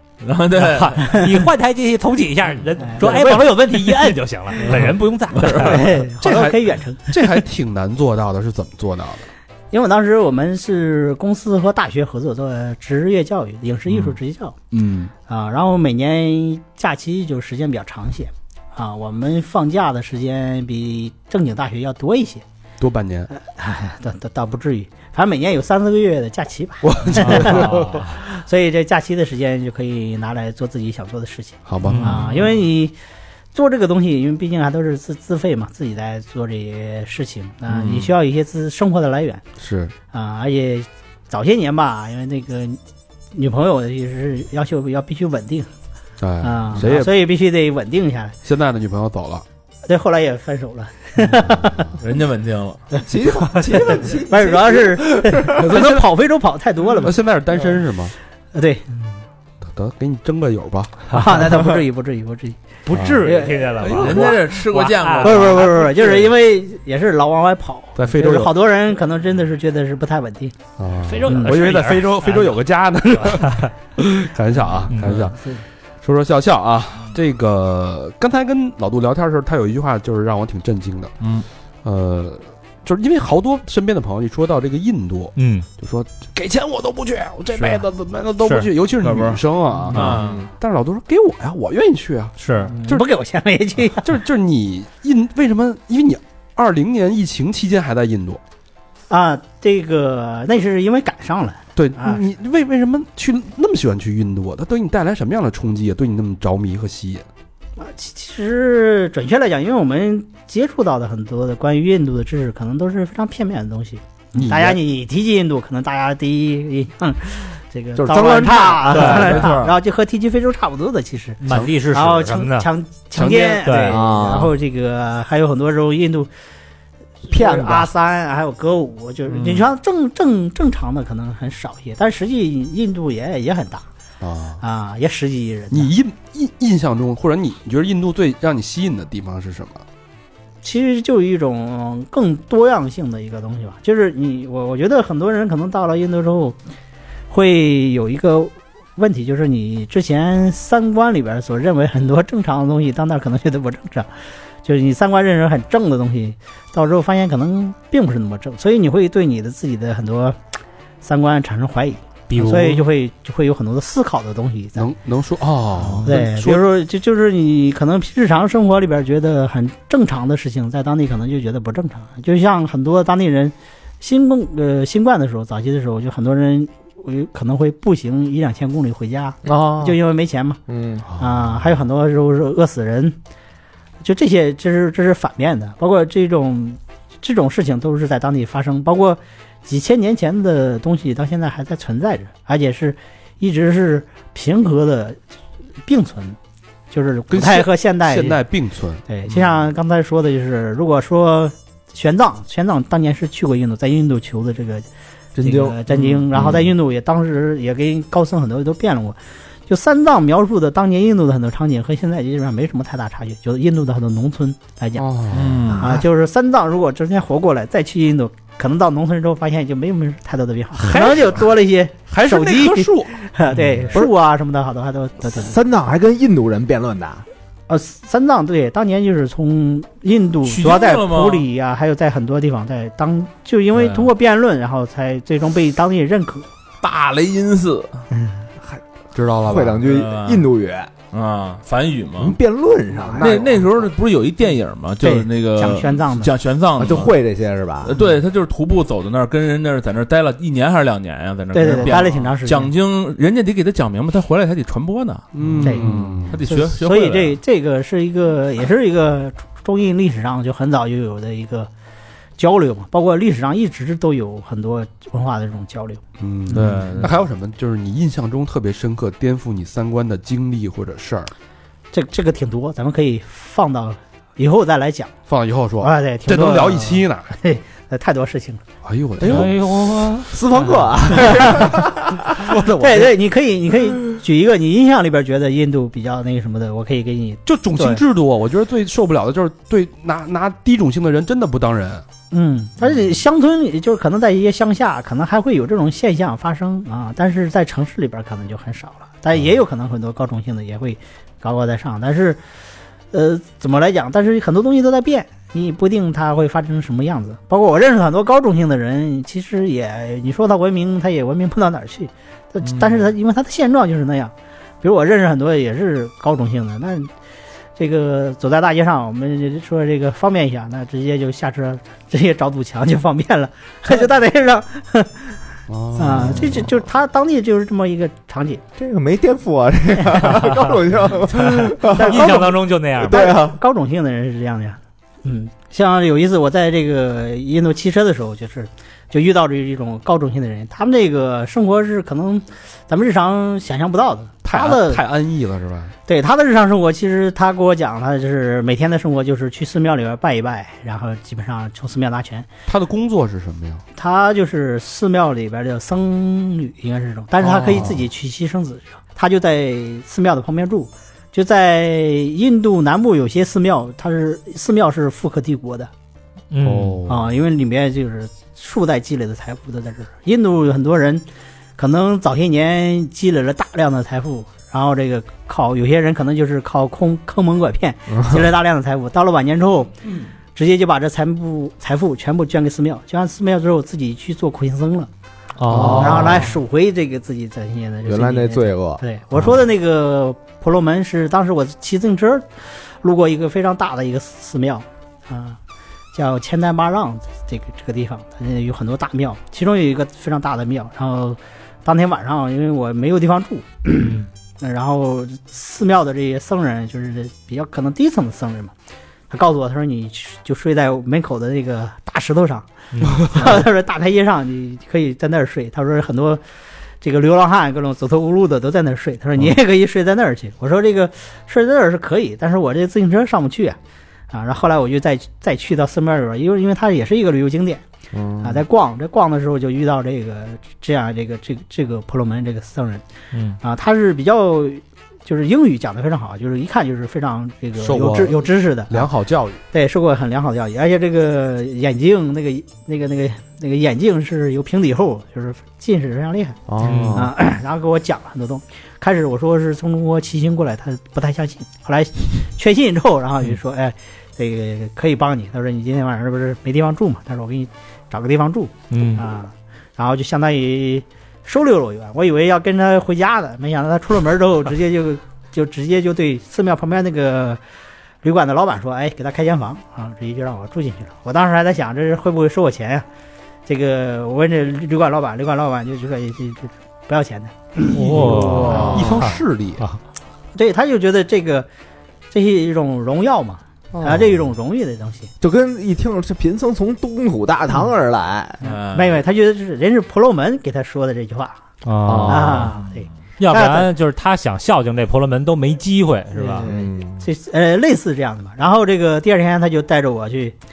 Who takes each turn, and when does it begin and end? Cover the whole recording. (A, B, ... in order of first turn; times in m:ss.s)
0:00.2-0:01.0 A
0:00.5-0:06.0 B
0:02.8-0:03.5 C
0:05.5-0:07.2 C
0:06.2-0:09.3 D
0:09.7-0:14.5 C
0:14.7-0:15.1 D
0:15.3-0:22.4 C
0:22.8-0:23.3 D
0:23.3-0:32.9 C
0:26.8-0:28.1 D
0:27.4-0:28.2 B
0:31.7-0:32.2 D
0:31.8-0:32.1 A
0:31.9-0:32.5 B
0:33.5-0:39.4 C
0:37.7-0:38.0 D
0:39.6-0:39.9 D
0:40.1-0:42.8 C
0:43.3-0:45.7 C
0:46.2-0:47.1 D
0:46.4-0:48.4 C
0:48.4-0:49.4 D
0:49.8-0:52.0 C
0:52.0-0:52.8 A
0:52.9-0:57.2 C
0:53.0-0:55.6 E
0:55.5-0:56.1 D
0:57.0-0:58.1 D
0:58.5-0:59.0 C
0:59.6-1:01.2 D
1:01.1-1:02.6 C
1:02.8-1:05.6 B
1:02.9-1:03.2 D
1:03.2-1:04.3 C
1:03.8-1:06.1 A
1:03.8-1:04.3 D
1:05.2-1:10.5 C
1:08.0-1:08.5 D
1:10.8-1:15.4 D
1:11.0-1:12.6 B
1:11.2-1:11.6 C
1:13.3-1:13.7 B
1:14.9-1:15.2 B
1:15.0-1:15.6 C
1:16.0-1:21.1 D
1:21.2-1:21.4 A
1:21.8-1:33.0 D
1:25.4-1:25.6 B
1:27.6-1:27.8 B
1:28.4-1:28.7 B
1:29.9-1:30.4 A
1:30.0-1:30.5 E
1:32.4-1:32.7 B
1:32.7-1:34.0 C
1:33.8-1:38.4 D
1:39.1-1:42.2 C
1:41.8-1:47.2 D
1:47.8-2:06.3 C
1:54.3-1:54.8 D
1:58.0-1:59.6 E
1:58.9-1:59.5 B
1:59.0-1:59.7 A
2:01.4-2:02.7 B
2:01.5-2:01.7 D
2:03.1-2:03.7 D
2:03.6-2:04.0 B
2:03.9-2:04.5 E
2:07.2-2:13.8 C
2:07.3-2:07.9 E
2:09.3-2:09.6 A
2:14.2-2:14.6 D
2:14.6-2:15.9 C
2:15.7-2:19.8 D
2:20.6-2:26.6 C
2:27.3-2:34.1 C
2:34.6-2:40.4 C
2:41.0-2:44.9 C
2:42.3-2:42.8 B
2:44.8-2:46.6 D
2:46.0-3:00.6 C
2:59.4-3:00.0 E
3:00.7-3:01.0 E
3:01.1-3:01.6 D
3:01.2-3:03.2 C
3:04.0-3:15.2 C
3:15.8-3:16.4 C
3:16.9-3:18.4 C
3:17.3-3:19.0 D
3:19.1-3:24.8 C
3:25.3-3:25.8 E
3:25.4-3:35.1 C
3:26.0-3:26.6 D
3:26.4-3:26.6 A
3:35.0-3:35.9 D
3:35.3-3:35.9 A
3:35.7-3:45.6 C
3:40.8-3:41.5 D
3:42.1-3:43.2 D
3:45.3-3:47.2 E
3:47.7-3:56.5 C
3:50.4-3:51.5 A
3:56.8-3:58.1 A
3:59.1-3:59.9 D
3:59.5-4:00.9 E
3:59.8-4:00.5 A
4:01.1-4:02.4 A
4:02.2-4:03.4 E
4:03.1-4:03.8 D
4:03.2-4:07.1 A
4:05.0-4:06.3 C
4:06.8-4:07.9 E
4:07.8-4:17.4 A
4:11.5-4:12.7 C
4:15.3-4:16.4 D
4:16.4-4:21.7 C
4:22.4-4:26.9 C
4:26.2-4:31.3 D
4:26.5-4:27.1 A
4:31.9-4:35.1 C
4:35.3-4:37.3 D
4:35.8-4:38.6 C
4:38.8-4:39.5 D
4:39.2-4:39.7 E
4:39.3-4:40.3 B
4:40.2-4:42.4 E
4:42.4-4:43.2 D
4:42.8-4:48.0 C
4:47.4-4:52.0 D
4:52.3-5:02.4 C
5:03.1-5:17.1 C
5:12.6-5:13.0 A
5:17.8-5:25.4 C
5:25.7-5:26.8 D
5:25.9-5:28.6 C
5:28.8-5:33.6 E
5:30.0-5:30.8 C
5:31.3-5:45.0 C
5:31.6-5:33.3 B
5:44.4-5:45.9 D
5:46.1-5:52.5 C
5:52.7-5:53.8 D
5:53.9-6:05.9 C
5:57.4-5:58.0 D
6:06.5-6:07.0 B
6:06.6-6:07.3 D
6:07.1-6:11.2 C
6:11.8-6:19.9 C
6:20.5-6:25.1 C
6:25.6-6:26.5 B
6:25.7-6:26.4 E
6:25.7-6:35.6 C
6:28.0-6:29.0 E
6:36.1-6:48.7 C
6:44.0-6:44.3 B
6:49.3-6:56.4 C
6:52.9-6:53.5 B
6:57.0-7:03.8 C
7:04.3-7:07.8 C
7:08.1-7:08.6 E
7:08.4-7:13.0 C
7:13.3-7:13.6 B
7:13.6-7:19.1 C
7:17.8-7:19.6 D
7:19.7-7:26.6 C
7:26.7-7:27.3 E
7:26.8-7:27.2 B
7:27.1-7:47.6 C
7:38.9-7:39.2 B
7:48.2-7:53.0 C
7:53.6-7:59.0 C
7:57.9-8:00.0 B
7:58.1-7:59.8 D
7:58.3-7:59.1 E
8:00.5-8:01.7 C
8:02.3-8:05.3 C
8:03.9-8:04.4 E
8:05.4-8:08.6 E
8:08.6-8:09.2 A
8:08.6-8:11.6 C
8:11.8-8:12.7 B
8:12.0-8:12.7 E
8:12.2-8:13.9 C
8:13.4-8:16.7 B
8:16.3-8:20.6 C
8:16.6-8:17.2 E